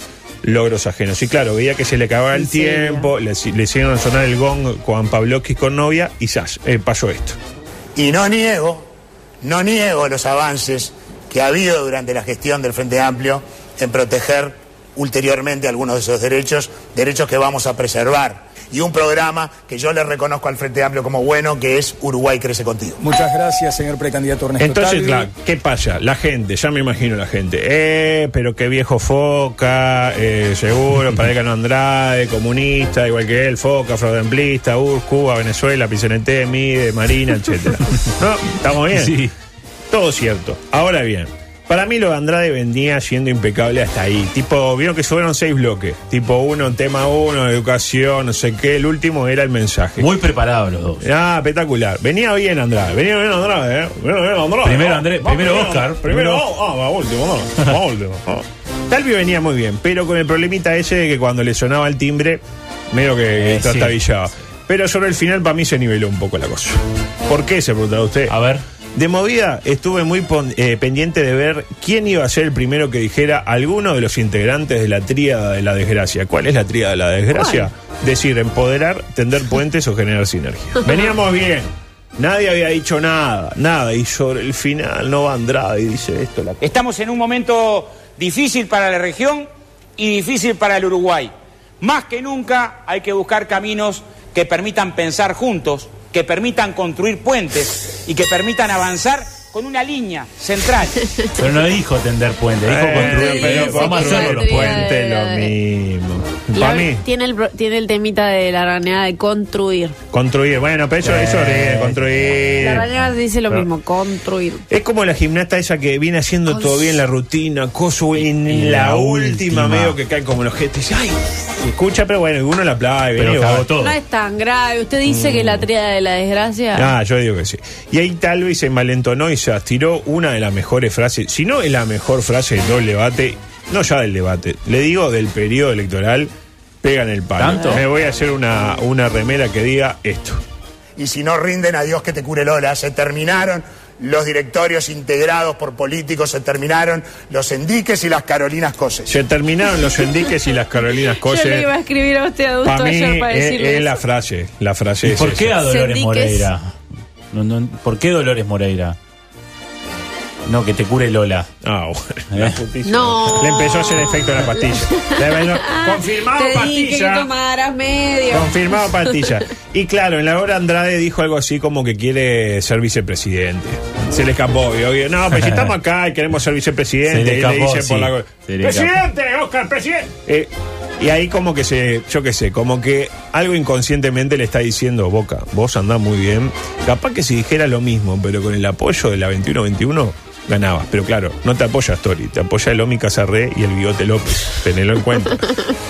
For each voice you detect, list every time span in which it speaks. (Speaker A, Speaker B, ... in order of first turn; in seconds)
Speaker A: 0.4-7.4, 24.6-39.2, 39.9-50.1, 51.0-68.3, 68.9-86.6, 102.6-107.0, 110.1-112.9, 114.7-123.7, 125.0-125.7, 126.7-136.3, 136.8-140.4, 149.1-151.7, 152.6-155.6, 161.6-167.3, 168.3-195.5
Speaker B: 2.3-3.1, 77.3-77.7, 102.9-105.5, 106.5-110.0, 112.6-114.6, 116.5-117.0, 123.8-126.9, 151.0-154.0, 155.6-156.5, 162.8-169.3
Speaker C: 8.0-8.8, 9.4-23.0, 141.0-149.1
Speaker D: 23.0-25.2
Speaker E: 38.9-39.3, 50.0-51.0, 54.6-56.4, 63.4-64.0, 68.3-68.6, 101.3-104.8, 111.0-112.9, 118.1-120.0, 123.2-124.0, 137.4-137.8, 155.0-156.7, 157.3-159.0, 160.4-161.5, 162.3-162.6, 175.3-175.7, 177.0-178.9
Speaker F: 86.6-101.0